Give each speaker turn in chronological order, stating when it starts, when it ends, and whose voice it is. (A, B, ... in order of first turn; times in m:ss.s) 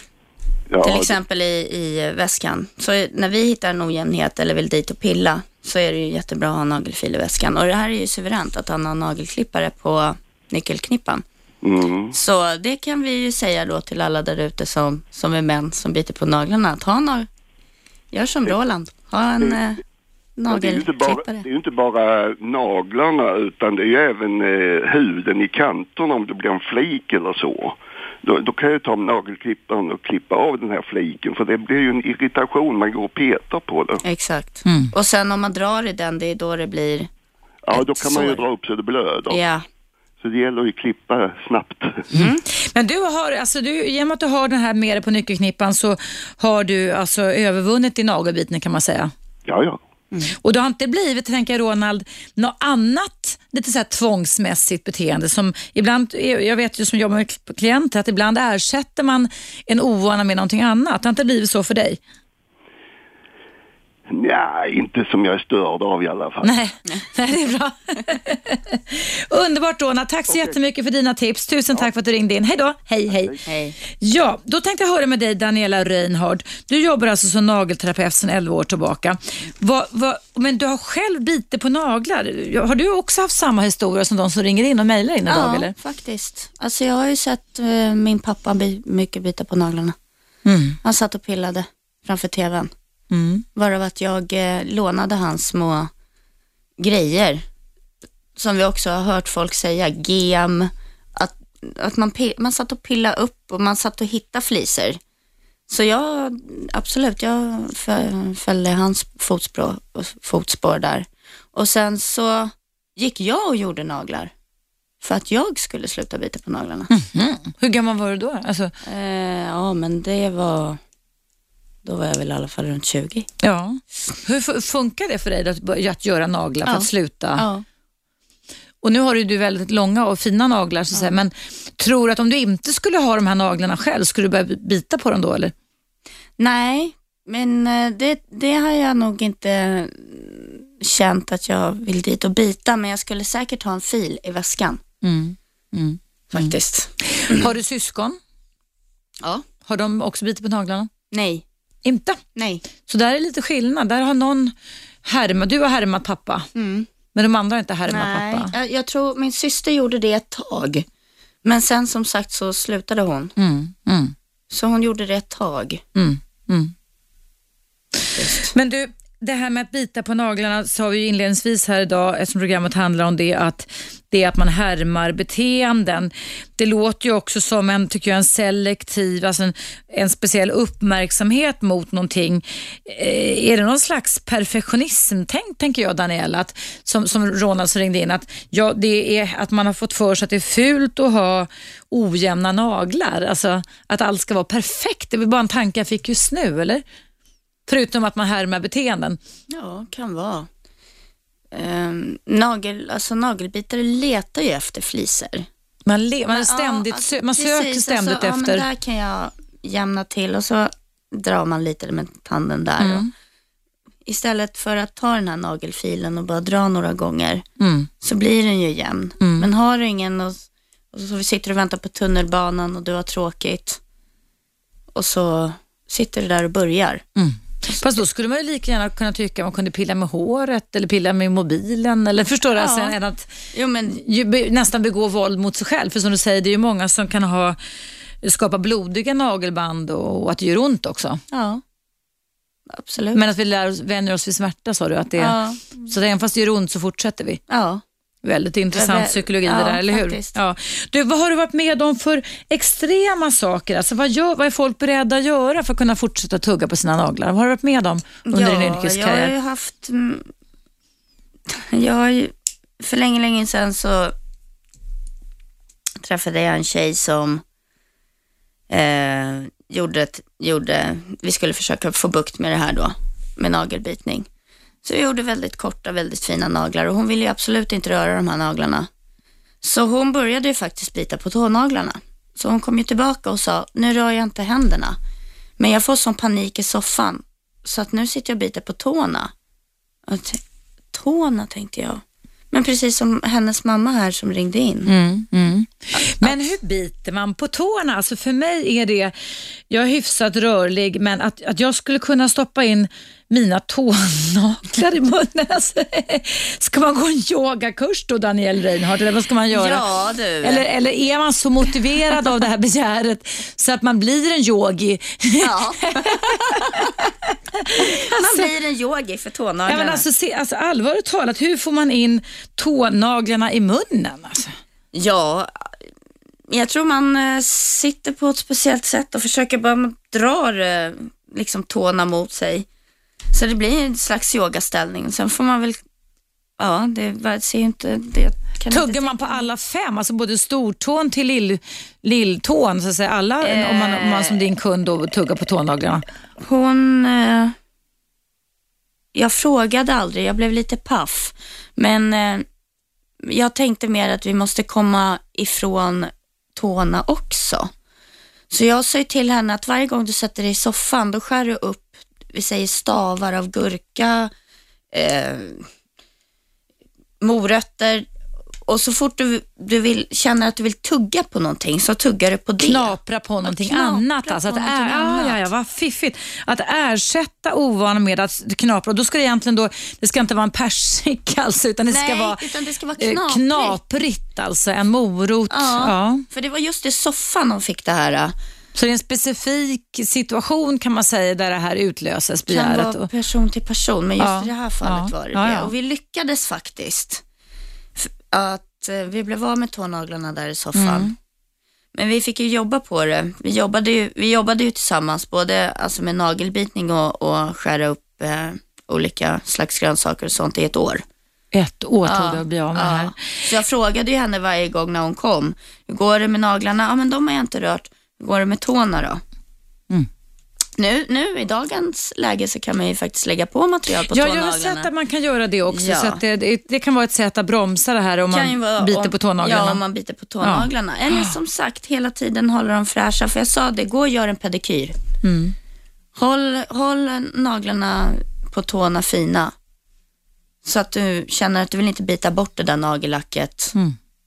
0:00.7-0:01.2 A
0:00.8-0:11.2 B
0:11.6-0:12.1 A
0:12.1-0:17.3 B
0:18.1-0:19.8 B
0:20.4-0:21.5 B
0:20.5-0:34.0 A
0:34.0-0:37.1 B
0:34.7-0:34.9 C
0:37.7-0:39.4 A
0:37.7-0:38.4 B
0:39.3-0:39.6 B
0:40.2-0:42.1 A
0:42.1-0:42.4 B
0:42.2-0:49.1 C
0:49.5-0:49.8 A
0:50.3-1:02.0 C
1:04.1-1:06.5 A
1:06.4-1:25.7 C
1:13.5-1:13.8 B
1:25.3-1:30.0 B
1:30.4-1:30.8 C
1:30.8-1:32.7 B
1:33.1-1:33.5 C
1:33.6-1:35.9 B
1:36.8-1:37.4 B
1:38.4-1:45.0 B
1:45.7-1:54.3 B
1:55.0-1:56.9 B
1:56.9-1:58.7 C
1:58.8-2:00.8 B
2:01.8-2:03.3 B
2:03.4-2:07.5 C
2:06.7-2:07.6 B
2:08.8-2:15.5 C
2:16.4-2:24.8 B
2:25.0-2:26.5 C
2:26.3-2:27.5 B
2:27.1-2:28.2 C
2:29.7-2:30.9 C
2:31.1-2:31.4 B
2:31.8-2:32.2 C
2:32.4-2:32.6 B
2:32.8-2:34.5 C
2:35.0-2:36.5 C
2:36.6-2:36.9 B
2:37.2-2:38.5 C
2:37.9-2:40.9 B
2:41.4-2:43.3 B
2:43.4-2:44.1 C
2:44.5-2:45.8 B
2:46.0-2:46.7 C
2:48.2-2:48.6 B
2:48.5-3:16.8 C
3:17.7-3:19.2 C
3:19.5-3:20.5 B
3:21.5-3:25.5 B
3:25.9-3:28.6 C
3:26.3-3:33.1 B
3:32.8-3:33.1 C
3:34.1-3:37.4 B
3:37.6-3:37.9 C
3:38.0-3:43.8 B
3:39.2-3:39.5 C
3:44.9-3:47.0 B
3:47.2-3:53.4 C
3:52.6-3:53.0 B
3:53.5-3:54.0 B
3:53.9-3:57.6 C
3:58.2-4:01.2 C
4:01.3-4:01.6 B
4:02.7-4:03.2 B
4:03.1-4:07.4 C
4:05.2-4:05.9 B
4:07.5-4:07.8 B
4:08.2-4:19.3 C
4:08.7-4:10.4 B
4:18.3-4:20.3 B
4:21.5-4:24.1 B
4:26.0-4:27.4 B
4:28.7-4:34.3 B
4:34.8-4:38.9 B
4:39.6-4:45.0 B
4:45.6-4:49.3 B
4:50.1-4:50.4 B
4:50.9-4:54.9 B
4:54.9-4:59.2 C
4:55.9-4:56.4 B
4:59.7-5:09.9 C
5:09.5-5:10.7 B
5:10.4-5:18.5 C
5:15.4-5:17.1 B
5:17.7-5:20.0 B
5:19.7-5:24.6 C
5:24.9-5:25.8 B
5:26.5-5:32.7 B
5:33.3-5:35.8 B
5:36.6-5:39.4 B
5:38.7-5:46.1 C
5:43.4-5:44.4 B
5:46.4-5:47.6 B
5:49.1-5:52.4 B
5:53.2-5:57.7 B
5:58.5-6:04.3 B
6:04.9-6:05.7 B
6:07.2-6:08.1 B
6:08.7-6:15.5 B
6:12.6-6:26.2 C
6:21.9-6:23.8 B
6:25.5-6:28.3 B
6:28.8-6:33.1 C
6:32.5-6:37.2 B
6:34.2-6:35.7 C
6:38.0-6:41.1 B
6:40.8-6:41.1 C
6:42.0-6:51.0 B
6:51.5-6:53.4 C
6:52.0-6:59.2 B
7:00.8-7:04.9 B
7:04.1-7:09.8 C
7:05.7-7:06.2 B
7:08.3-7:15.0 B
7:10.4-7:11.3 C
7:15.2-7:15.6 C
7:16.2-7:19.5 B
7:20.6-7:23.8 B